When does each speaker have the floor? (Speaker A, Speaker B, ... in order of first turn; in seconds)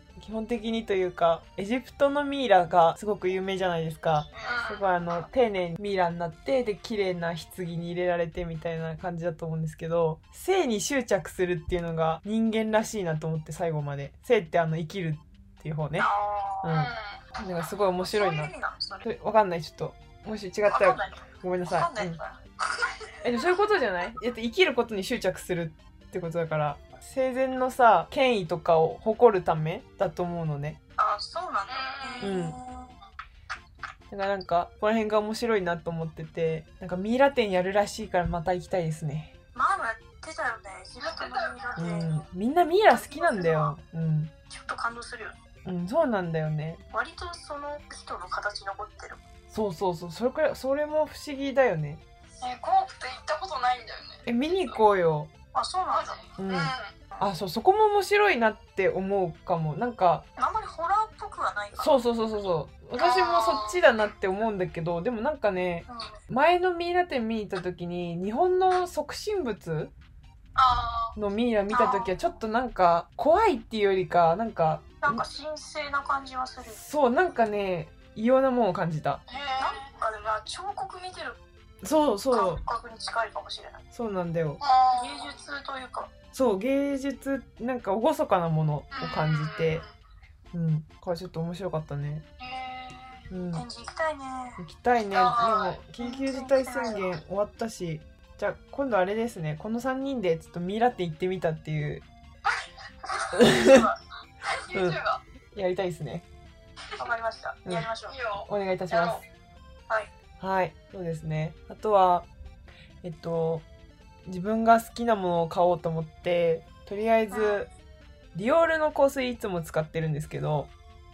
Speaker A: 0.2-16.1, 16.6-18.5, 19.0-22.2, 23.2-30.8, 32.2-32.6, 34.1-39.3, 41.8-44.3, 45.6-46.8, 49.5-52.0, 54.3-55.3, 56.4-60.2, 61.8-69.9, 71.2-75.2, 76.7-79.2, 81.8-82.6, 83.9-84.6, 86.3-89.8, 90.5-92.2, 93.3-93.7, 94.6-102.0, 103.4-103.8, 104.7-105.0, 105.5-106.3, 108.5-109.2, 110.4-112.3, 113.0-113.7, 114.3-117.7, 118.3-120.7
Speaker B: 4.3-4.7, 16.0-16.9, 18.0-19.1, 20.7-22.9, 31.0-33.0, 39.5-42.1, 42.9-43.8, 44.5-45.4, 46.9-49.2, 55.5-56.2, 60.4-61.9, 65.9-66.2, 71.7-72.1, 75.0-76.8, 79.6-81.4, 82.3-83.8, 84.9-86.1, 93.5-97.2, 103.2-104.0, 107.0-108.2, 117.3-117.6
Speaker C: 4.4-5.0, 16.7-17.2, 31.7-32.4, 41.0-41.9, 52.4-54.8, 55.9-57.0, 63.0-63.8, 70.6-71.2, 79.3-79.8, 84.6-85.3, 88.9-89.9, 92.4-93.2, 95.2-95.8, 104.4-105.2, 108.1-109.2